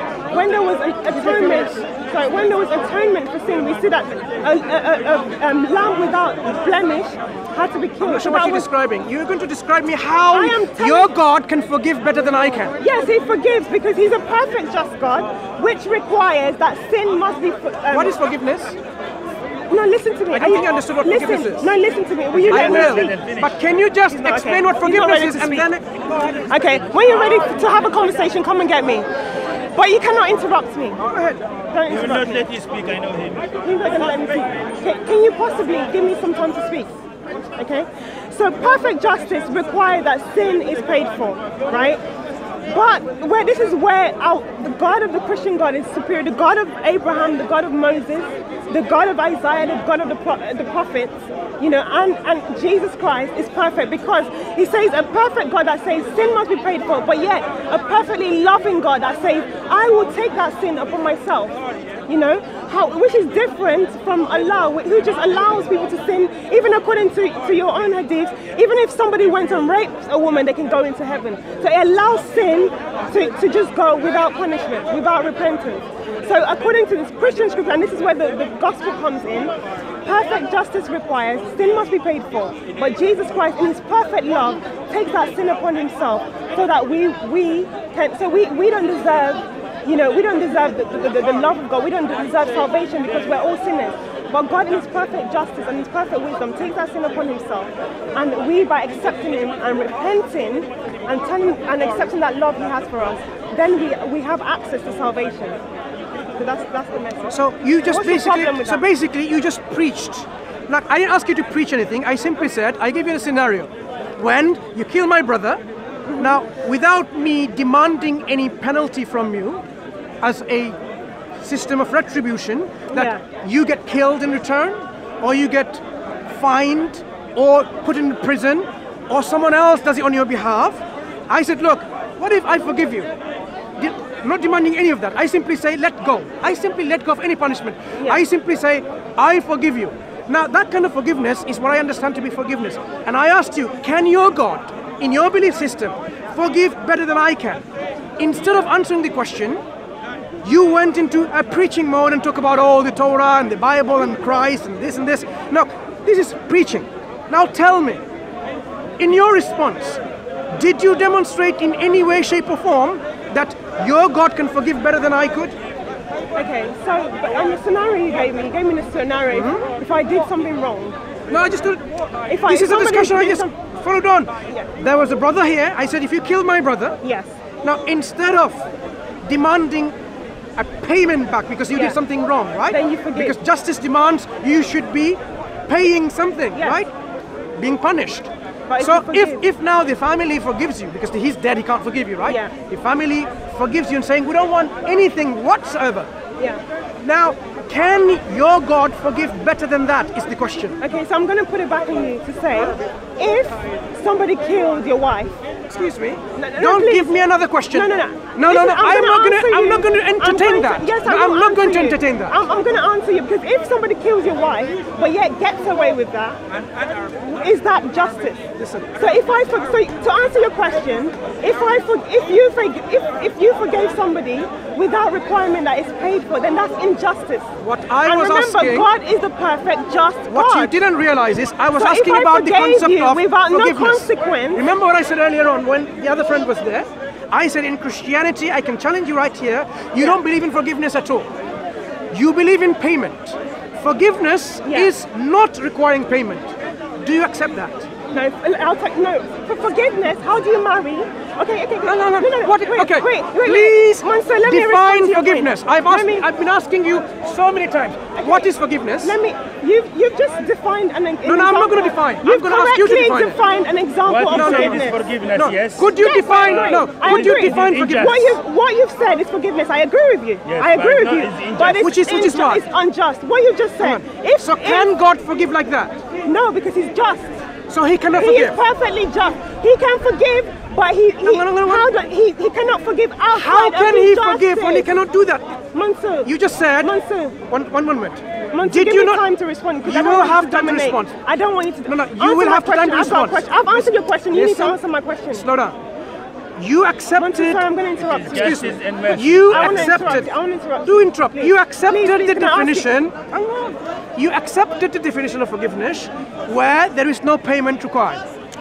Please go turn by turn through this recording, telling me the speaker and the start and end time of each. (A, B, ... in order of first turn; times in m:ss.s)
0:00.3-0:08.7 A
0:01.1-0:01.8 B
0:08.0-0:12.7 B
0:10.3-0:11.1 A
0:12.8-0:18.2 A
0:17.9-0:18.8 B
0:19.7-0:23.3 A
0:20.3-0:21.7 B
0:22.5-0:25.8 B
0:22.6-0:23.4 C
0:24.1-0:25.7 A
0:26.3-0:29.1 A
0:29.7-0:31.0 A
0:31.0-0:31.4 B
0:31.7-0:32.6 A
0:32.0-0:33.5 C
0:33.5-0:36.9 A
0:37.5-0:42.0 A
0:42.7-1:45.6 A
1:46.3-1:48.8 A
1:47.3-1:55.6 B
1:56.0-1:56.4 A
1:56.2-1:59.6 B
2:00.2-2:00.8 B
2:01.4-2:13.1 B
2:02.9-2:03.2 A
2:13.8-2:27.6 B
2:18.0-2:18.2 A
2:28.2-2:29.6 B
2:30.4-2:38.0 B
2:39.0-2:40.0 B
2:40.5-2:45.6 B
2:46.3-2:51.0 A
2:49.3-2:49.6 B
2:51.3-2:51.9 B
2:52.3-2:53.5 A
2:52.4-2:57.0 B
2:57.0-2:57.4 A
2:57.6-2:58.6 B
2:59.2-2:59.9 B
3:00.6-3:06.9 B
3:01.7-3:02.0 A
3:02.7-3:03.4 A
3:06.5-3:06.8 A
3:07.6-3:16.1 B
3:08.7-3:09.4 A
3:12.2-3:12.5 A
3:17.0-3:20.8 B
3:20.8-3:25.4 A
3:25.7-3:32.4 B
3:26.3-3:36.4 A
3:37.1-3:38.4 A
3:38.6-3:38.9 B
3:39.0-3:47.5 A
3:47.6-3:48.9 B
3:48.0-3:50.8 A
3:50.3-4:01.3 B
3:51.7-3:54.7 A
4:02.1-4:07.9 B
4:04.6-4:04.9 A
4:08.1-4:16.3 A
4:11.8-4:19.1 B
4:18.1-4:25.1 A
4:21.2-4:23.4 B
4:24.1-4:25.8 C
4:24.3-4:28.1 B
4:25.9-4:35.0 A
4:27.5-4:28.3 C
4:30.4-4:31.8 C
4:31.8-4:32.7 B
4:33.8-4:36.0 B
4:36.2-4:37.4 A
4:37.7-4:38.6 B
4:38.1-4:44.9 A
4:41.2-4:41.9 B
4:43.3-4:45.5 B
4:45.7-4:47.4 A
4:46.2-4:46.9 B
4:47.5-4:49.2 B
4:48.5-4:55.4 A
4:49.8-4:51.1 B
4:51.8-4:54.8 B
4:55.3-4:55.8 B
4:56.6-4:57.6 B
4:57.1-4:58.7 A
4:58.3-5:00.3 B
4:58.5-4:59.6 C
4:59.4-5:03.0 A
5:00.8-5:08.2 B